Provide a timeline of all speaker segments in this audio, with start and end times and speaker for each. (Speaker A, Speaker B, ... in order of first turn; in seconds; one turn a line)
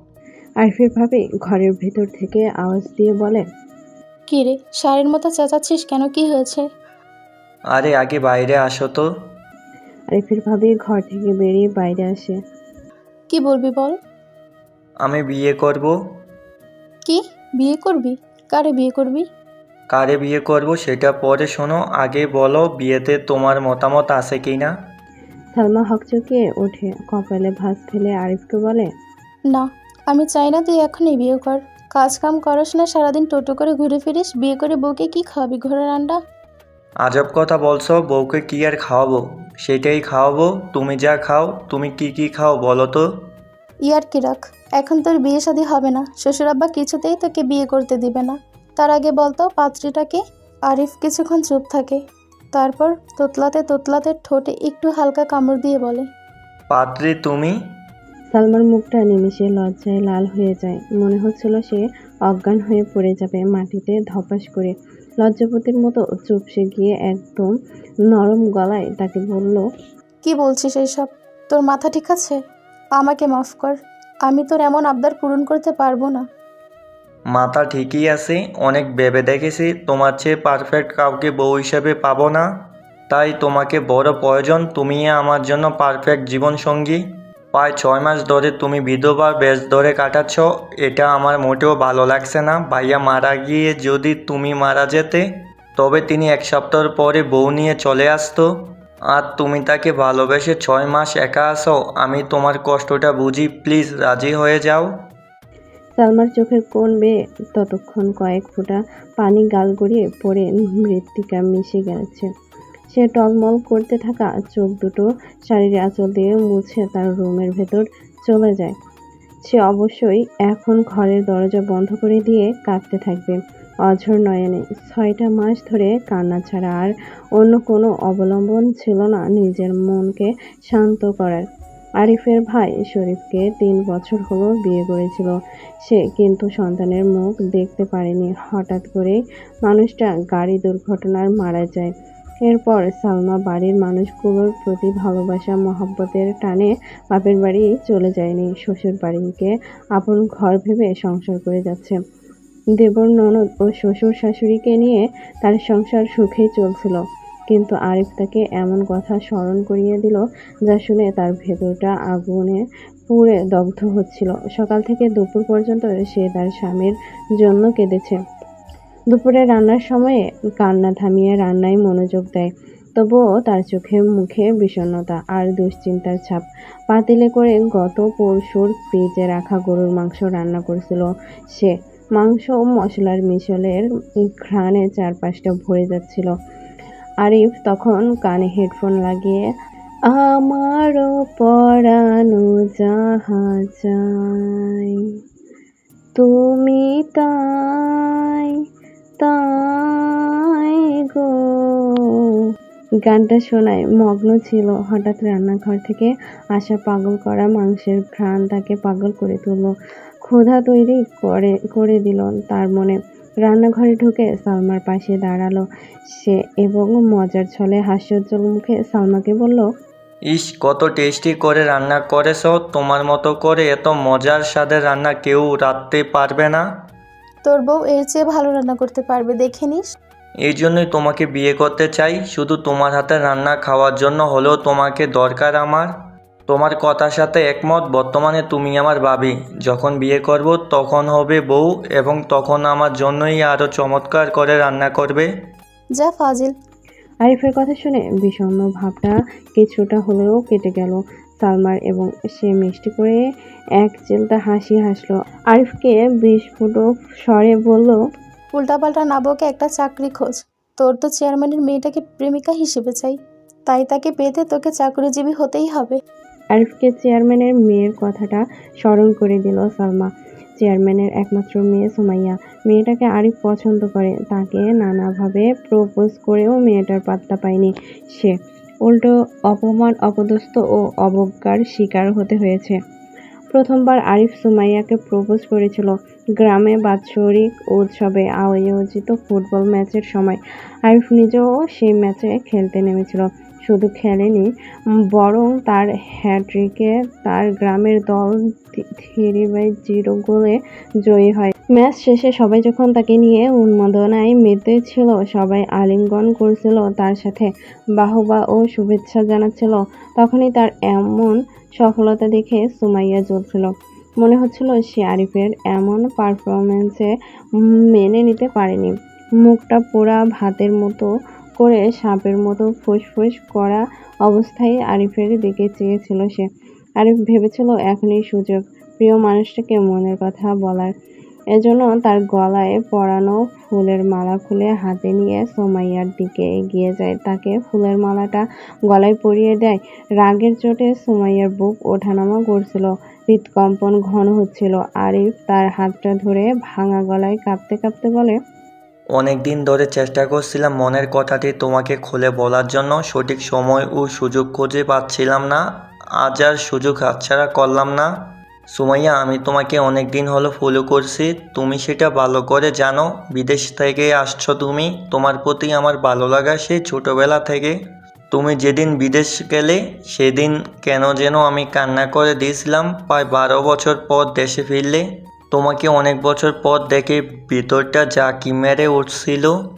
Speaker A: 0.6-3.4
Speaker B: 4.3-6.6
Speaker C: 7.7-9.1
Speaker A: 10.1-12.4
Speaker B: 13.3-13.9
Speaker C: 15.0-15.9
Speaker B: 17.0-19.2
Speaker C: 19.9-24.7
Speaker A: 25.5-28.9
Speaker B: 29.5-36.2
Speaker C: 37.0-43.3
Speaker B: 43.8-52.0
Speaker B: 52.5-56.0
Speaker C: 56.7-57.6
Speaker A: 58.3-67.5
Speaker A: 68.1-69.6
Speaker B: 70.2-72.4
Speaker B: 73.0-76.2
Speaker C: 77.3-82.5
Speaker C: 83.1-98.5
Speaker C: 99.1-104.9
Speaker A: 106.0-112.3
Speaker A: 112.9-118.7
Speaker A: 119.5-131.4
Speaker A: 132.0-135.3
Speaker A: 135.8-141.9
Speaker A: 142.5-152.0
Speaker A: 152.8-168.2
Speaker A: 169.1-183.8
Speaker A: 184.4-186.3
Speaker A: 187.2-189.4
Speaker A: 190.1-194.8
Speaker A: 196.2-198.1
Speaker A: 199.2-200.1
Speaker A: 203.0-209.7
Speaker A: 210.2-219.7
Speaker C: 220.3-226.6
Speaker B: 227.4-229.8
Speaker C: 230.4-235.9
Speaker C: 236.5-245.3
Speaker B: 246.0-246.5
Speaker A: 247.2-253.2
Speaker A: 253.8-258.0
Speaker B: 258.6-263.2
Speaker B: 263.7-266.0
Speaker A: 266.5-282.8
Speaker A: 283.5-294.5
Speaker A: 295.1-321.1
Speaker A: 321.6-326.5
Speaker A: 327.0-330.9
Speaker A: 331.6-348.4
Speaker C: 349.1-355.6
Speaker C: 356.2-358.1
Speaker C: 358.7-367.8
Speaker C: 368.3-379.6